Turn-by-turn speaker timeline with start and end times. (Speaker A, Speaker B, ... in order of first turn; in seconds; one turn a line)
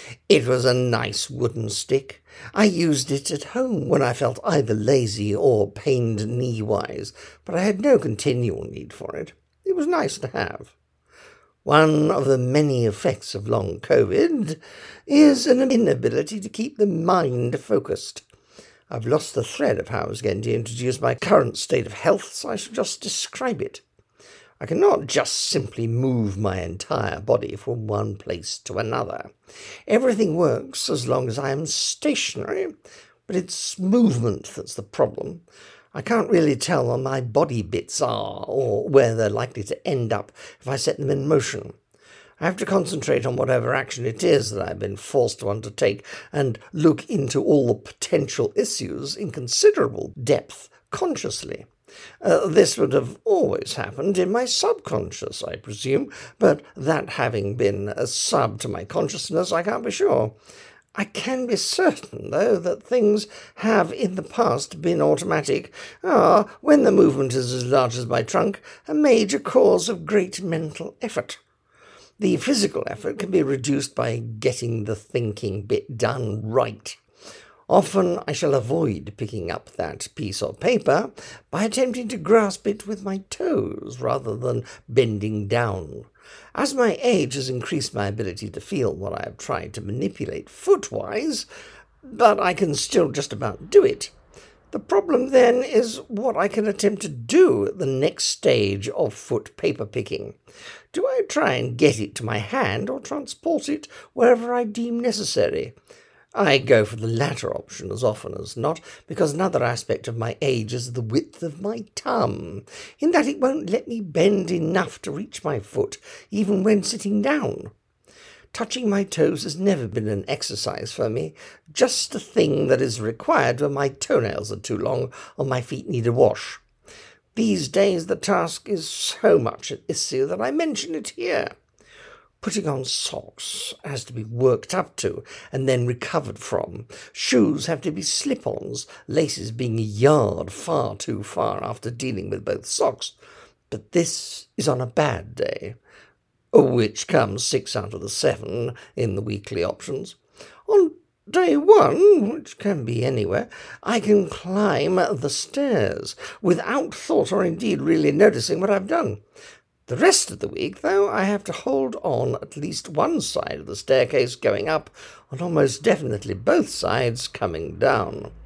Speaker A: 0.3-10.7
Speaker A: 11.7-18.2
Speaker A: 18.9-23.8
Speaker A: 24.6-29.3
Speaker A: 29.9-32.7
Speaker A: 33.3-41.8
Speaker A: 42.4-51.7
Speaker A: 52.2-60.3
Speaker A: 61.0-71.4
Speaker A: 72.2-77.0
Speaker A: 77.7-91.5
Speaker A: 92.0-94.1
Speaker A: 94.7-100.4
Speaker A: 100.9-105.8
Speaker A: 106.3-117.7
Speaker A: 118.5-126.6
Speaker A: 127.3-131.5
Speaker A: 132.4-143.2
Speaker A: 143.7-145.8
Speaker A: 146.5-159.2
Speaker A: 159.9-168.3